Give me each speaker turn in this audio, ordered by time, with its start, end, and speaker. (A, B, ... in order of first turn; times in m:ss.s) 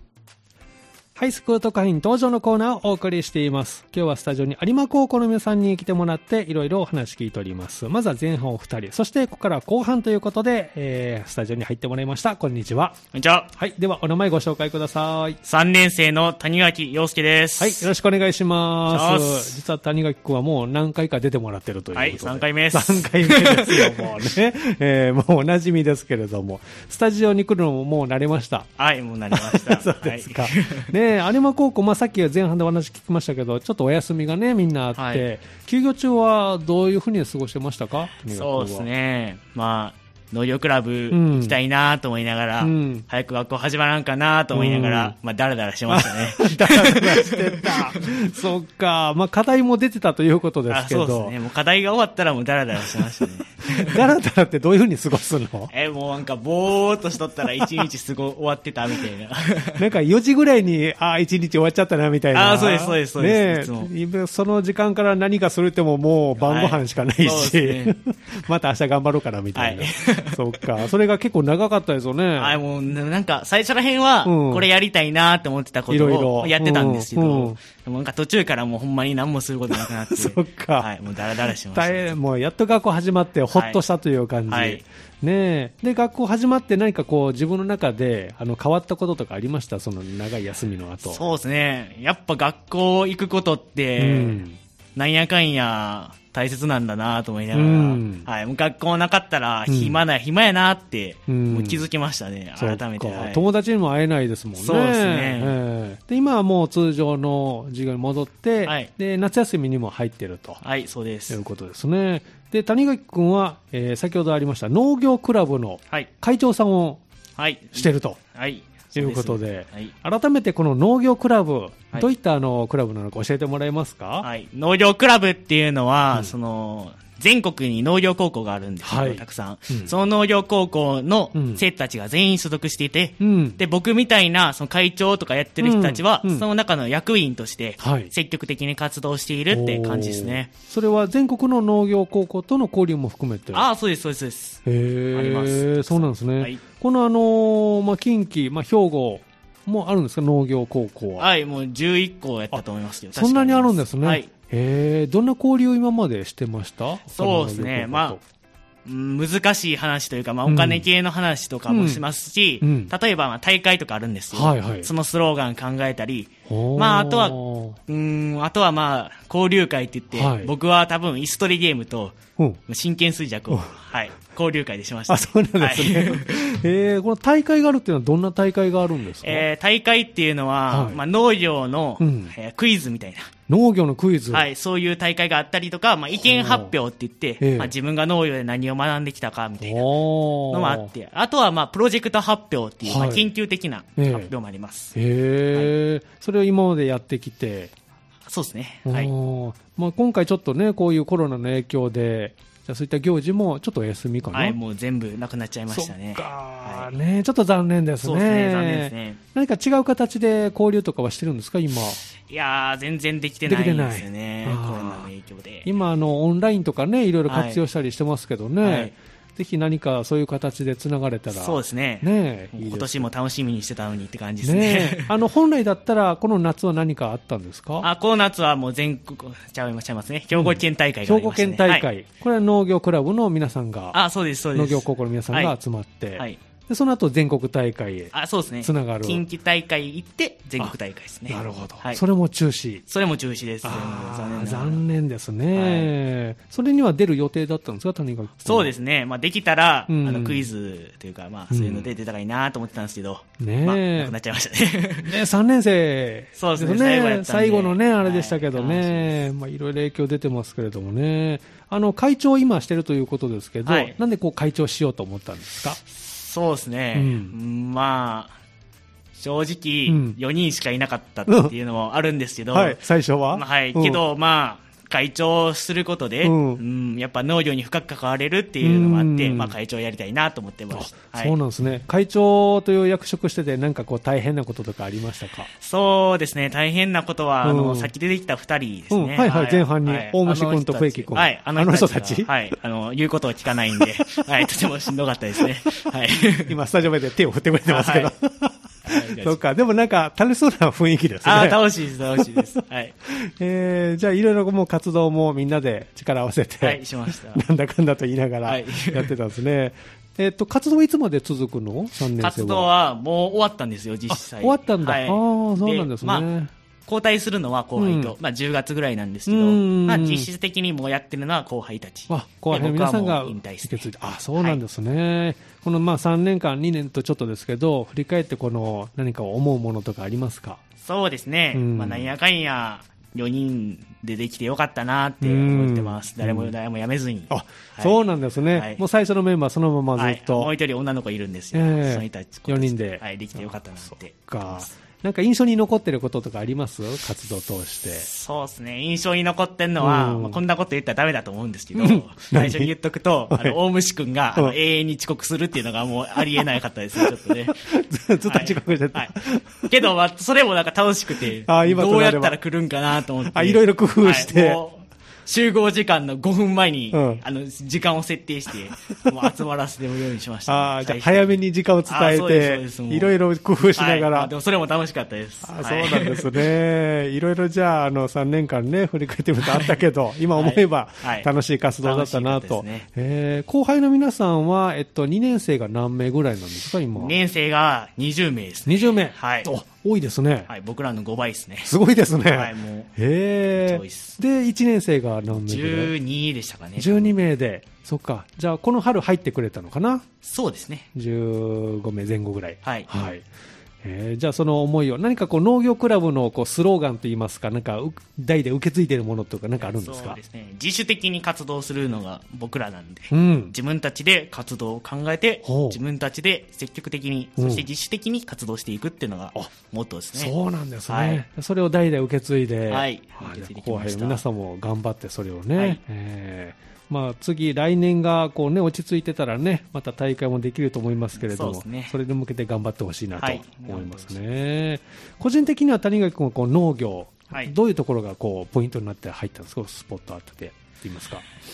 0:01.2-0:13.0 A
0:13.1-0:13.5 B
0:13.5-0:15.4 A
0:15.4-0:17.9 B
0:17.6-0:28.7 A
0:18.9-0:19.6 B
0:21.9-0:24.2 B
0:28.8-0:30.9 B
0:29.3-0:38.9 A
0:35.0-0:35.3 B
0:38.3-0:48.0 B
0:41.1-0:41.6 A
0:42.6-0:43.1 A
0:44.5-0:45.2 A
0:45.9-0:51.4 A
0:50.7-0:54.0 B
0:53.8-0:55.7 A
0:55.7-0:59.8 B
0:59.8-1:12.6 A
1:02.3-1:03.9 B
1:06.4-1:08.0 B
1:09.6-1:10.6 B
1:12.4-1:22.2 B
1:14.2-1:14.7 A
1:15.9-1:17.6 A
1:19.7-1:20.9 A
1:21.7-1:31.2 A
1:23.5-1:23.8 B
1:24.5-1:24.8 B
1:31.0-1:34.4 B
1:34.0-1:34.6 A
1:35.0-1:43.4 B
1:37.5-1:38.3 A
1:39.7-1:40.0 A
1:41.3-1:41.8 A
1:42.6-1:50.6 A
1:44.6-1:45.6 B
1:48.6-1:48.9 B
1:50.6-1:51.4 B
1:51.3-1:57.0 A
1:57.4-1:59.9 B
1:57.8-1:58.2 A
1:59.0-2:04.3 A
2:04.2-2:20.5 B
2:08.8-2:09.9 A
2:11.4-2:11.6 A
2:13.2-2:13.6 A
2:15.6-2:16.4 A
2:17.8-2:18.1 A
2:19.5-2:23.7 A
2:23.5-2:26.6 B
2:24.6-2:31.3 A
2:31.2-2:34.3 B
2:33.2-2:38.2 A
2:37.1-2:38.2 B
2:38.9-2:56.5 B
2:40.5-2:40.9 A
2:41.7-2:42.0 A
2:42.6-2:42.9 A
2:44.3-2:44.9 A
2:46.5-2:47.8 A
2:50.1-2:50.5 A
2:55.1-2:59.5 A
2:59.2-3:03.3 B
3:00.7-3:01.0 A
3:02.0-3:02.3 A
3:03.5-3:04.5 A
3:04.3-3:15.0 B
3:06.2-3:06.7 A
3:07.4-3:07.7 A
3:09.6-3:10.9 A
3:12.8-3:13.3 A
3:14.0-3:14.3 A
3:15.0-3:17.7 A
3:18.3-3:19.1 B
3:18.9-3:24.6 A
3:24.3-3:26.9 B
3:25.7-3:32.0 A
3:28.0-3:29.2 B
3:32.3-3:35.7 B
3:33.5-3:35.1 A
3:35.6-3:43.1 A
3:37.3-3:37.6 B
3:38.6-3:38.9 B
3:41.3-3:45.1 B
3:44.4-3:47.9 A
3:47.8-3:51.9 B
3:50.3-3:54.0 A
3:53.9-3:55.6 B
3:54.5-3:59.2 A
3:58.1-4:02.0 B
4:01.3-4:02.8 A
4:02.9-4:04.8 B
4:03.6-4:08.7 A
4:05.5-4:05.9 B
4:08.4-4:15.1 B
4:09.9-4:10.4 A
4:11.5-4:11.9 A
4:13.4-4:14.1 A
4:15.0-4:25.8 A
4:16.4-4:19.2 B
4:23.6-4:24.0 B
4:25.8-4:28.4 B
4:27.0-4:27.4 A
4:29.2-4:41.4 B
4:29.9-4:30.2 A
4:31.3-4:31.5 A
4:32.5-4:34.0 A
4:36.2-4:36.6 A
4:38.6-4:39.6 A
4:40.7-4:45.5 A
4:45.6-4:56.6 B
4:47.4-4:47.9 A
4:48.9-4:52.3 A
4:56.5-5:01.6 A
4:57.7-4:58.1 B
4:58.8-4:59.4 B
5:01.2-5:03.0 B
5:02.2-5:02.4 A
5:03.1-5:12.7 A
5:06.6-5:07.4 B
5:08.4-5:09.1 B
5:12.2-5:16.3 B
5:14.1-5:16.5 A
5:16.9-5:24.6 B
5:17.8-5:18.2 A
5:19.3-5:20.3 A
5:22.1-5:30.6 A
5:30.8-5:38.0 B
5:31.5-5:32.1 A
5:35.2-5:36.5 A
5:37.3-5:40.5 A
5:38.5-5:38.8 B
5:40.0-5:44.7 B
5:41.5-5:43.4 A
5:43.9-5:48.1 A
5:47.9-5:57.6 B
5:49.8-5:50.4 A
5:51.8-5:52.7 A
5:53.3-5:53.6 A
5:57.0-5:59.7 A
5:58.2-6:13.1 B
6:01.5-6:02.4 A
6:03.3-6:04.6 A
6:06.9-6:07.2 A
6:10.5-6:14.3 A
6:13.8-6:16.4 B
6:15.4-6:27.2 A
6:19.4-6:19.8 B
6:20.4-6:21.3 B
6:21.8-6:22.9 B
6:27.0-6:29.5 B
6:28.7-6:30.5 A
6:30.5-6:31.7 B
6:31.6-6:35.9 A
6:32.3-6:32.9 B
6:33.6-6:34.2 B
6:35.3-6:37.1 B
6:36.8-6:40.0 A
6:40.2-6:40.9 B
6:40.9-6:43.3 A
6:42.6-6:42.9 B
6:43.8-6:50.2 A
6:49.6-7:00.3 B
6:53.1-6:53.5 A
6:55.4-6:55.8 A
6:57.4-6:57.7 A
7:00.1-7:21.2 A
7:00.9-7:01.2 B
7:02.7-7:04.2 B
7:11.2-7:12.0 B
7:13.2-7:14.2 B